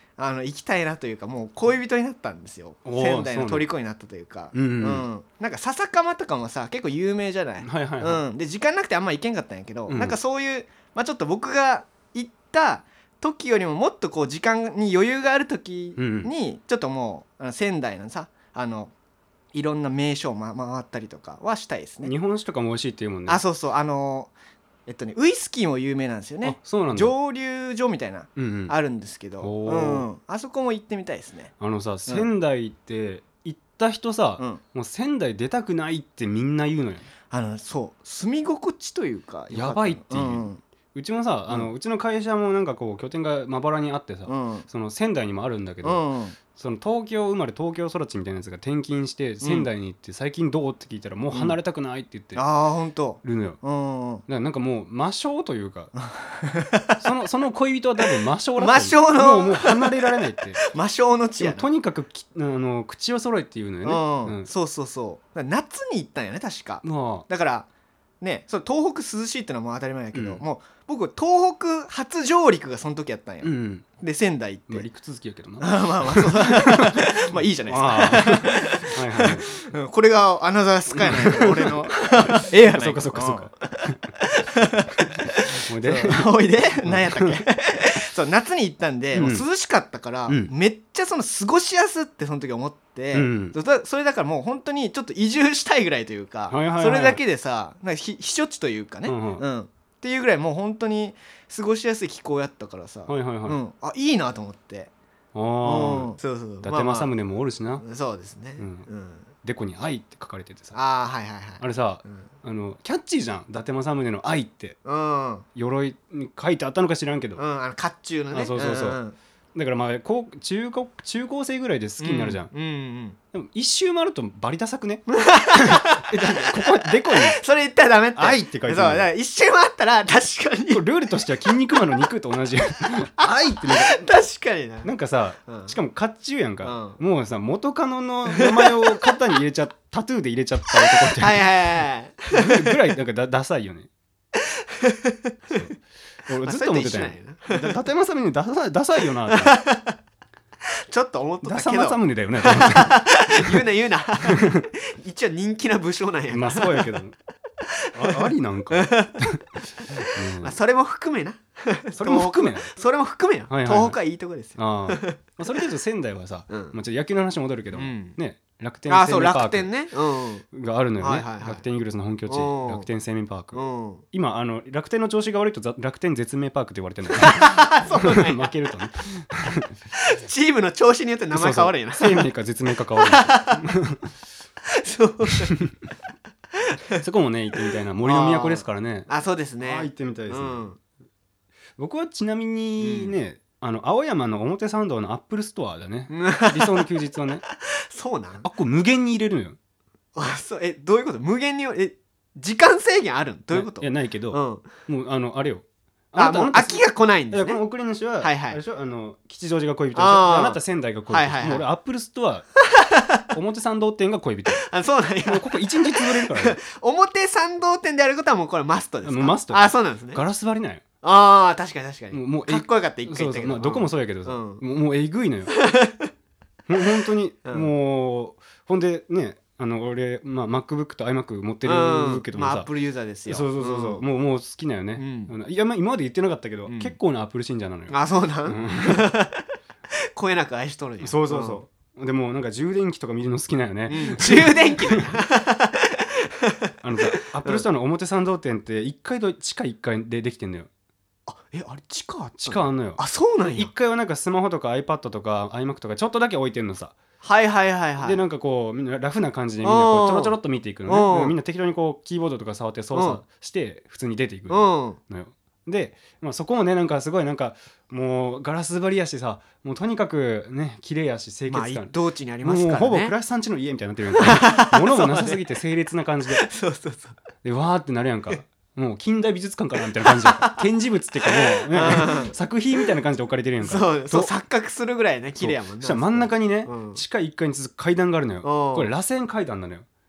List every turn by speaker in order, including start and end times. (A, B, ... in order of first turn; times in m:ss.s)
0:00.2-0:18.9 A
0:02.8-0:03.7 B
0:04.5-0:05.0 B
0:07.6-0:08.2 B
0:09.9-0:10.2 B
0:16.0-0:16.3 B
0:19.5-0:22.1 A
0:22.0-0:23.4 B
0:23.3-0:24.3 A
0:24.9-0:31.5 A
0:26.4-0:27.2 B
0:28.4-0:28.7 B
0:29.4-0:30.1 B
0:31.6-0:37.1 B
0:37.3-0:40.6 A
0:39.5-0:46.0 B
0:44.3-0:44.7 A
0:45.8-0:46.4 A
0:46.5-0:52.4 B
0:49.4-0:49.7 A
0:52.3-0:54.2 A
0:53.2-0:53.6 B
0:54.3-0:55.9 B
0:56.0-0:57.0 A
0:57.0-1:00.6 B
0:58.6-1:01.7 A
1:01.4-1:04.5 B
1:03.8-1:07.7 A
1:06.8-1:07.2 B
1:08.2-1:14.9 A
1:10.1-1:10.4 B
1:13.4-1:13.8 B
1:14.7-1:19.5 B
1:15.6-1:44.9 A
1:21.0-1:24.0 B
1:25.6-1:26.3 B
1:26.8-1:27.4 B
1:29.1-1:29.4 B
1:33.1-1:33.5 B
1:36.5-1:37.2 B
1:39.0-1:39.4 B
1:43.1-1:43.6 B
1:45.3-1:47.8 B
1:45.6-1:47.1 A
1:47.8-1:49.3 A
1:48.6-1:48.9 B
1:49.4-1:50.8 B
1:50.7-1:52.2 A
1:51.6-1:54.8 B
1:54.8-1:55.4 A
1:55.5-1:57.4 B
1:57.4-1:59.2 A
1:58.3-1:59.0 B
1:59.5-2:02.5 B
2:02.0-2:03.2 A
2:03.3-2:05.1 B
2:05.1-2:10.8 A
2:05.6-2:07.4 B
2:08.2-2:09.1 B
2:10.7-2:14.1 B
2:13.2-2:14.9 A
2:14.8-2:23.9 B
2:15.5-2:15.7 A
2:16.6-2:17.0 A
2:18.3-2:19.2 A
2:20.7-2:22.8 A
2:24.4-2:25.7 A
2:26.3-2:29.6 B
2:26.4-2:27.7 A
2:29.3-2:30.0 A
2:30.9-2:36.9 A
2:31.4-2:33.6 B
2:34.3-2:34.6 B
2:36.3-2:37.1 B
2:37.7-2:39.3 A
2:37.9-2:39.4 B
2:39.8-2:45.6 A
2:40.0-2:40.6 B
2:42.0-2:42.7 B
2:43.5-2:44.0 B
2:44.5-2:49.7 B
2:46.5-2:46.7 A
2:47.7-2:48.2 A
2:48.9-2:50.4 A
2:50.5-2:59.7 B
2:51.0-2:51.6 A
2:52.3-2:52.9 A
2:53.5-2:54.0 A
2:57.1-2:58.5 A
2:59.9-3:02.3 A
3:01.3-3:04.1 B
3:03.0-3:03.7 A
3:04.7-3:05.6 A
3:06.7-3:07.0 A
3:07.0-3:09.1 B
3:08.0-3:10.8 A
3:09.6-3:10.7 B
3:11.8-3:17.4 B
3:12.8-3:13.1 A
3:16.1-3:16.9 A
3:17.7-3:18.5 A
3:18.4-3:19.6 B
3:20.2-3:24.7 A
3:23.5-3:32.5 B
3:26.2-3:27.6 A
3:28.2-3:28.6 A
3:29.9-3:31.7 A
3:32.6-3:33.3 A
3:33.3-3:34.6 B
3:34.6-3:40.2 A
3:35.2-3:36.6 B
3:39.0-3:40.8 B
3:41.0-3:44.6 A
3:42.1-3:45.5 B
3:45.5-3:46.1 A
3:46.7-3:52.7 B
3:51.6-3:54.0 A
3:53.3-3:59.1 B
3:55.0-3:55.3 A
3:56.6-3:57.0 A
3:57.9-3:59.5 A
4:00.1-4:01.6 A
4:01.0-4:05.1 B
4:03.9-4:07.6 A
4:06.8-4:10.7 B
4:11.3-4:13.7 A
4:12.4-4:13.0 B
4:13.5-4:17.0 B
4:17.2-4:18.2 A
4:18.0-4:31.9 B
4:19.6-4:20.3 A
4:20.8-4:21.3 A
4:22.9-4:23.2 A
4:24.5-4:25.0 A
4:31.5-4:33.1 A
4:32.4-4:36.5 B
4:34.2-4:35.4 A
4:36.3-4:37.2 A
4:37.4-4:44.3 B
4:40.0-4:40.6 A
4:41.2-4:42.9 A
4:43.6-4:47.0 A
4:45.4-4:49.8 B
4:48.4-4:48.9 A